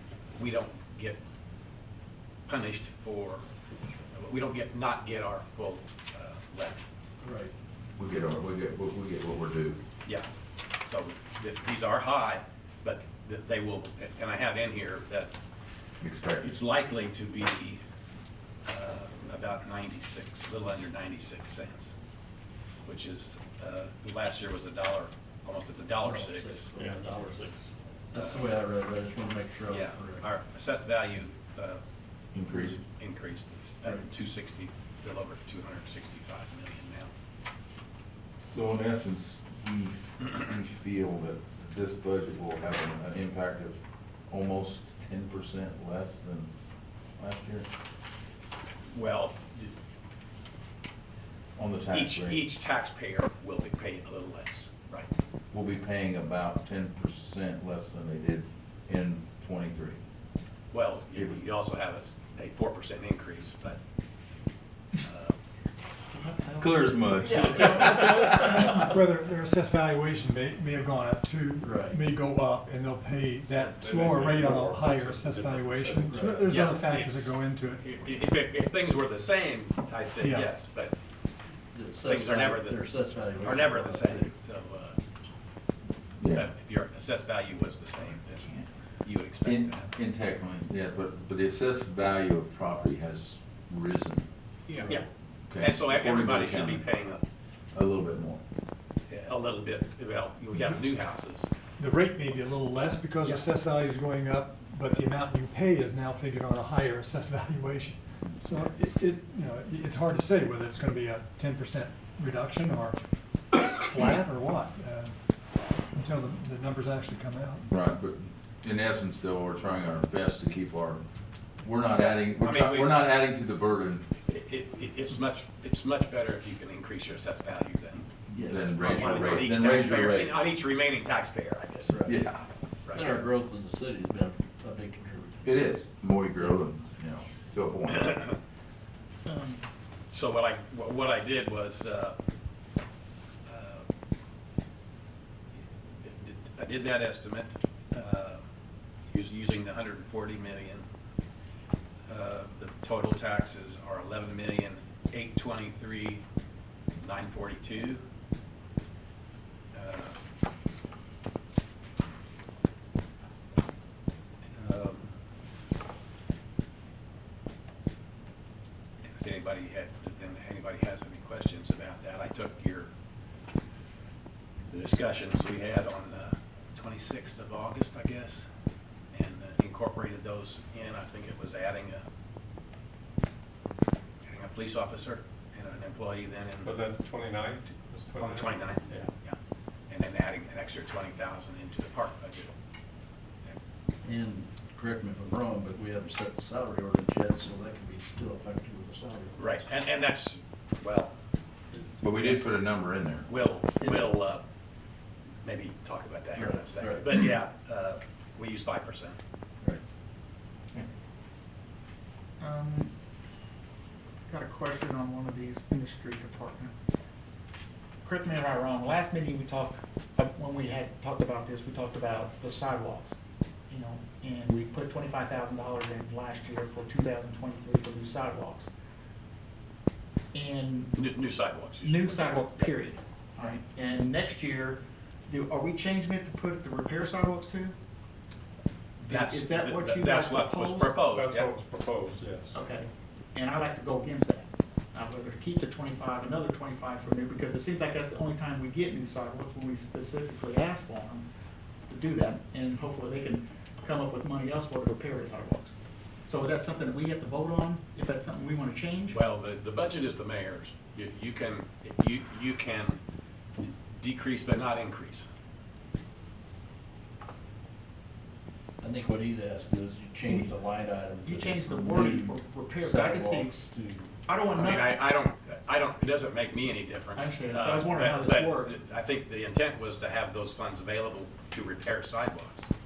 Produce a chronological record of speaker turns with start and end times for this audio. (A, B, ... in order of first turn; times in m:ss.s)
0:00.4-0:01.2 A
0:02.5-0:03.4 A
0:04.1-0:06.8 A
0:07.2-0:07.5 B
0:08.0-0:09.8 C
0:10.8-0:15.3 A
0:16.0-0:16.6 C
0:16.4-0:17.8 A
0:18.6-0:21.9 A
0:22.8-0:26.7 A
0:26.0-0:27.6 B
0:26.7-0:27.6 D
0:28.1-0:30.2 B
0:28.2-0:28.5 A
0:29.7-0:31.8 A
0:32.3-0:32.8 C
0:32.7-0:37.1 A
0:38.4-0:46.5 C
0:47.2-0:47.7 C
0:48.9-0:49.7 A
0:51.6-0:52.4 C
0:51.9-0:55.1 A
0:55.5-1:00.0 C
1:00.7-1:03.8 A
1:05.0-1:05.4 A
1:06.1-1:08.9 E
1:06.6-1:08.3 C
1:08.4-1:18.2 F
1:11.6-1:12.0 B
1:13.4-1:16.5 D
1:16.0-1:16.5 B
1:16.5-1:20.9 A
1:20.2-1:20.5 F
1:21.7-1:24.3 B
1:22.0-1:22.8 A
1:23.4-1:25.0 A
1:26.2-1:26.5 C
1:26.3-1:28.5 A
1:28.3-1:28.7 E
1:29.0-1:29.9 A
1:29.4-1:34.3 C
1:34.7-1:34.9 E
1:35.5-1:36.8 C
1:35.6-1:37.2 A
1:37.7-1:38.4 C
1:39.1-1:41.5 A
1:41.8-1:53.0 F
1:53.5-1:55.1 F
1:55.9-1:57.7 F
1:57.7-2:01.0 C
2:01.6-2:04.0 C
2:02.4-2:03.0 A
2:04.3-2:08.0 A
2:08.3-2:09.2 B
2:08.4-2:10.4 C
2:08.7-2:12.0 A
2:11.9-2:12.2 B
2:12.0-2:12.4 C
2:12.8-2:13.1 A
2:12.9-2:15.5 B
2:15.4-2:18.2 C
2:19.2-2:19.6 E
2:20.1-2:22.2 A
2:23.5-2:23.8 A
2:26.0-2:28.4 A
2:29.1-2:30.8 A
2:32.1-2:36.2 A
2:37.0-2:38.0 A
2:39.7-2:40.2 A
2:44.6-2:45.1 A
2:49.1-2:52.9 A
2:54.7-2:58.5 A
2:59.1-3:02.0 A
3:04.2-3:06.8 A
3:06.6-3:09.1 D
3:08.2-3:09.4 A
3:09.9-3:12.5 A
3:14.0-3:19.6 B
3:19.4-3:21.1 A
3:22.0-3:23.3 C
3:22.2-3:22.5 A
3:23.3-3:24.4 A
3:23.8-3:24.1 B
3:25.4-3:29.2 A
3:26.4-3:27.1 B
3:32.4-3:32.9 E
3:34.3-3:36.7 E
3:38.0-3:43.2 E
3:43.7-3:48.7 E
3:50.3-3:50.9 E
3:50.9-3:52.7 A
3:51.8-3:57.7 E
3:59.0-4:00.9 E
3:59.0-4:01.5 A
4:01.1-4:02.6 D
4:02.5-4:11.3 E
4:11.9-4:15.7 E
4:16.3-4:19.2 E
4:19.1-4:23.0 A
4:23.6-4:25.3 A
4:28.8-4:34.1 B
4:31.2-4:33.6 E
4:34.2-4:35.0 E
4:34.5-4:42.7 A
4:37.1-4:38.7 E